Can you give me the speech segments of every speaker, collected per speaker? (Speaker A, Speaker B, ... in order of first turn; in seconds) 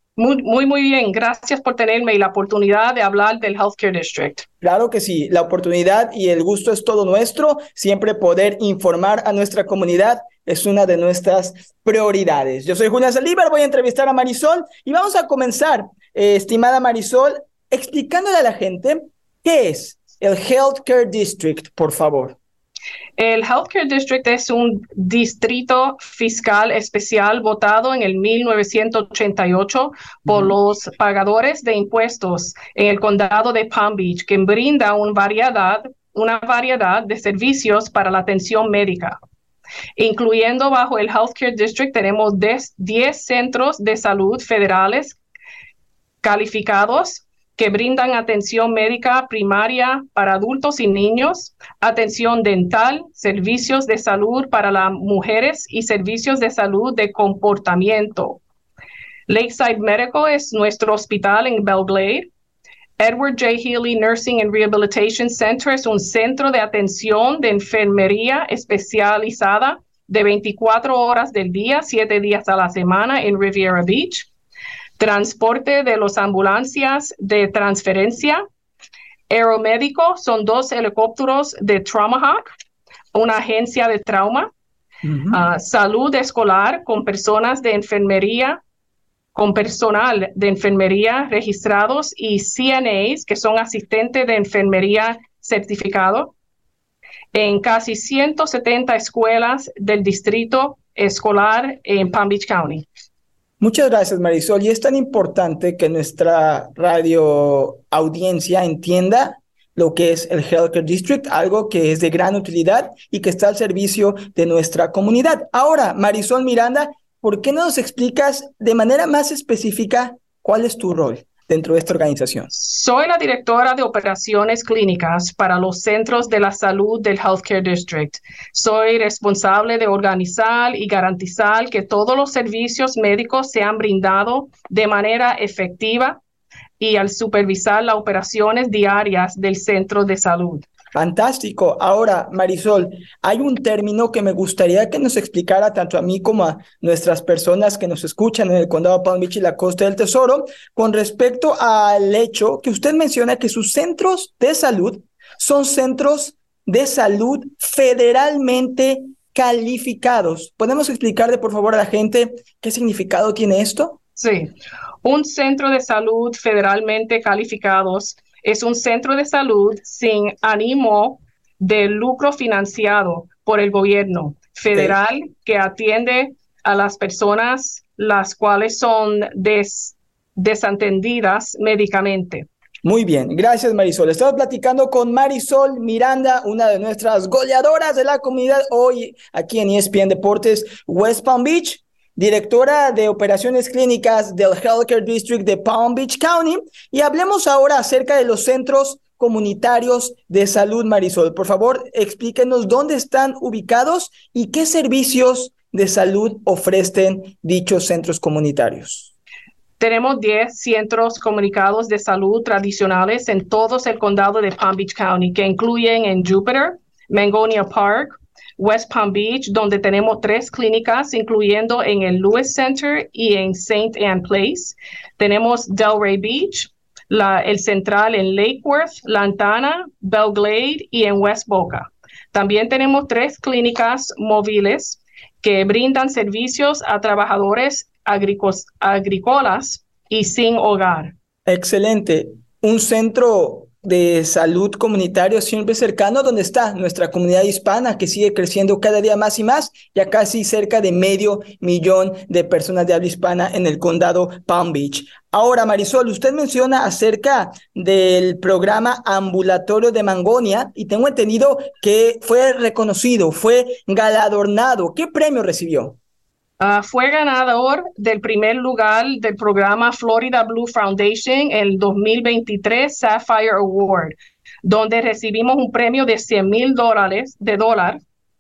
Speaker A: 0.2-4.5, 23.2-39.2, 40.0-45.2, 46.2-58.4, 59.3-62.3, 63.0-74.3, 75.0-78.4, 79.3-82.4, 83.1-84.5, 85.3-88.6, 89.3-96.3, 97.3-102.9, 122.5-136.2, 136.8-140.7, 164.2-182.5, 209.8-241.1, 266.6-278.0
Speaker B: 4.6-22.4, 30.3-30.5, 85.0-85.4, 103.6-122.5, 140.9-164.0, 182.8-209.1, 241.5-266.0